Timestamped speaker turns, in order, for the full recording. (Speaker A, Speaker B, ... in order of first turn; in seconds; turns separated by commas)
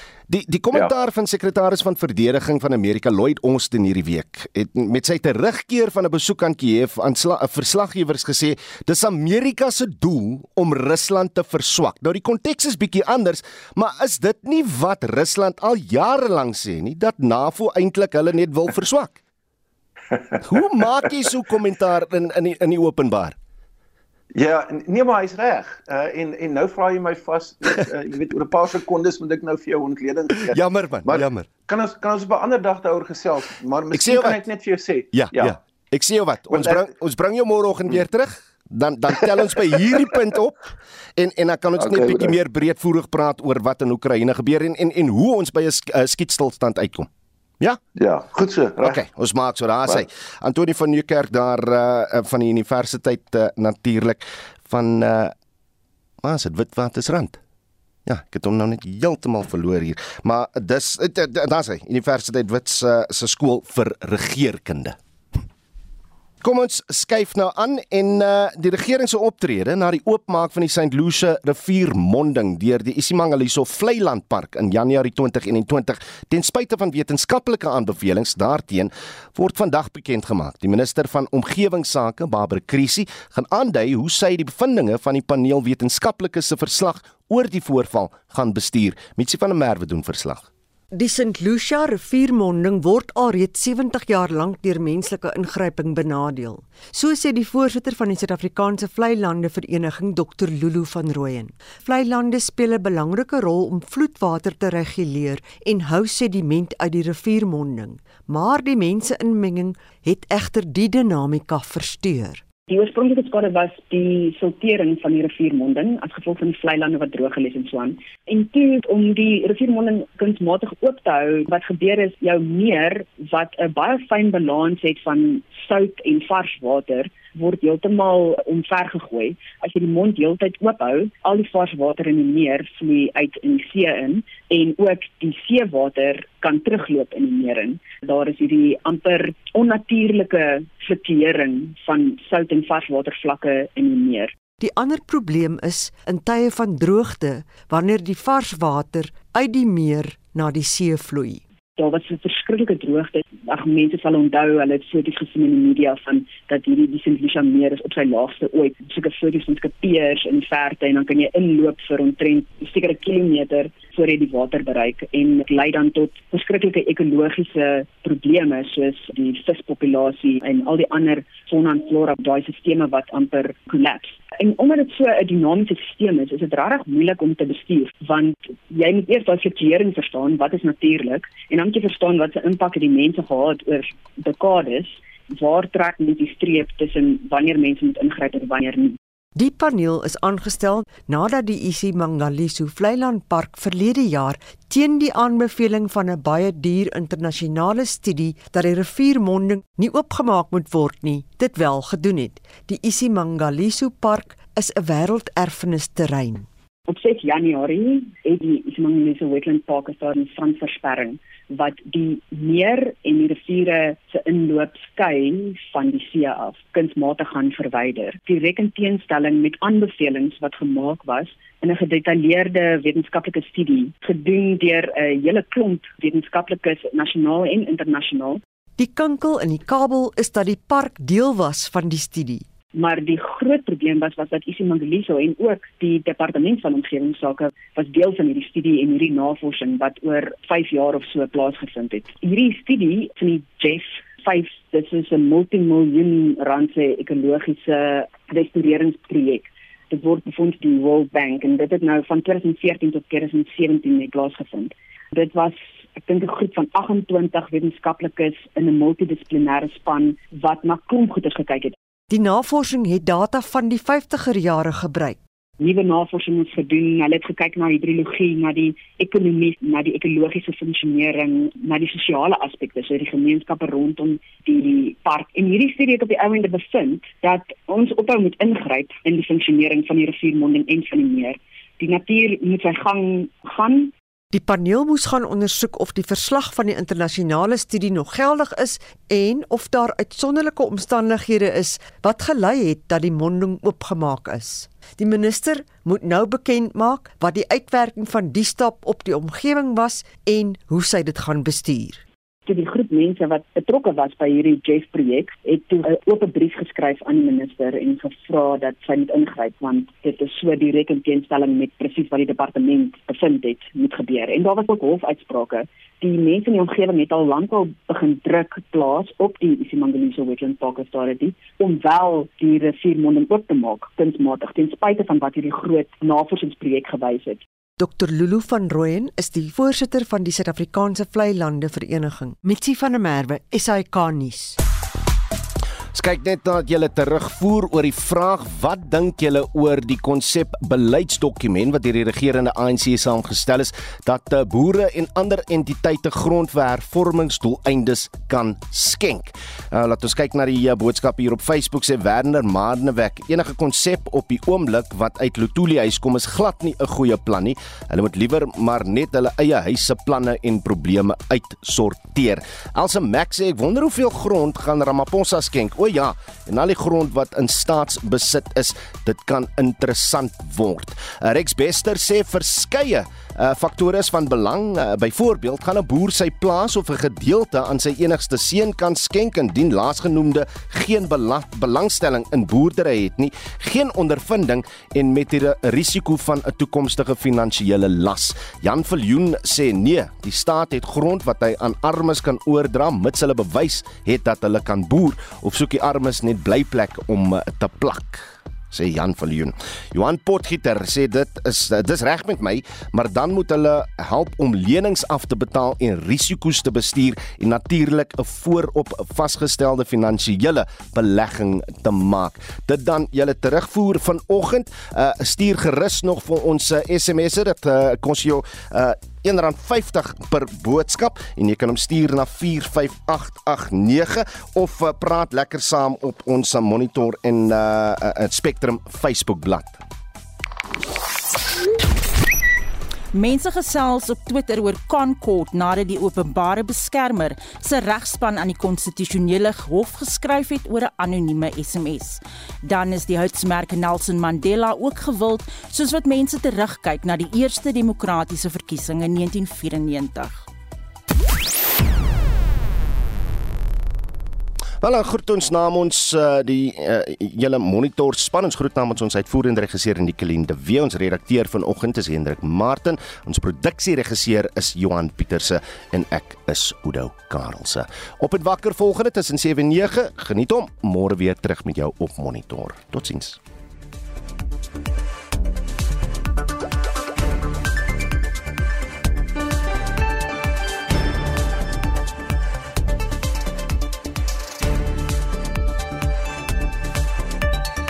Speaker A: 0.3-19.2, Speaker A: 20.4-23.4, Speaker B: 24.3-35.6, Speaker A: 30.5-31.5, Speaker A: 33.9-34.4, Speaker A: 35.1-47.1, Speaker B: 36.5-36.9, Speaker B: 41.8-42.4, Speaker B: 48.0-49.0, Speaker A: 48.8-55.3, Speaker A: 56.2-57.4, Speaker A: 58.0-65.0, Speaker A: 66.4-90.5, Speaker C: 90.9-112.4, Speaker D: 112.7-144.3, Speaker C: 144.6-151.4, Speaker D: 151.8-189.0, Speaker C: 189.3-206.5, Speaker D: 206.9-228.4, Speaker C: 228.8-232.4, Speaker D: 232.7-261.8, Speaker C: 262.1-265.2, Speaker D: 265.6-283.9, Speaker C: 284.3-302.0, Speaker D: 302.4-327.4, Speaker C: 327.8-334.6, Speaker A: 335.9-429.8, Speaker E: 433.1-450.4, Speaker A: 454.8-473.4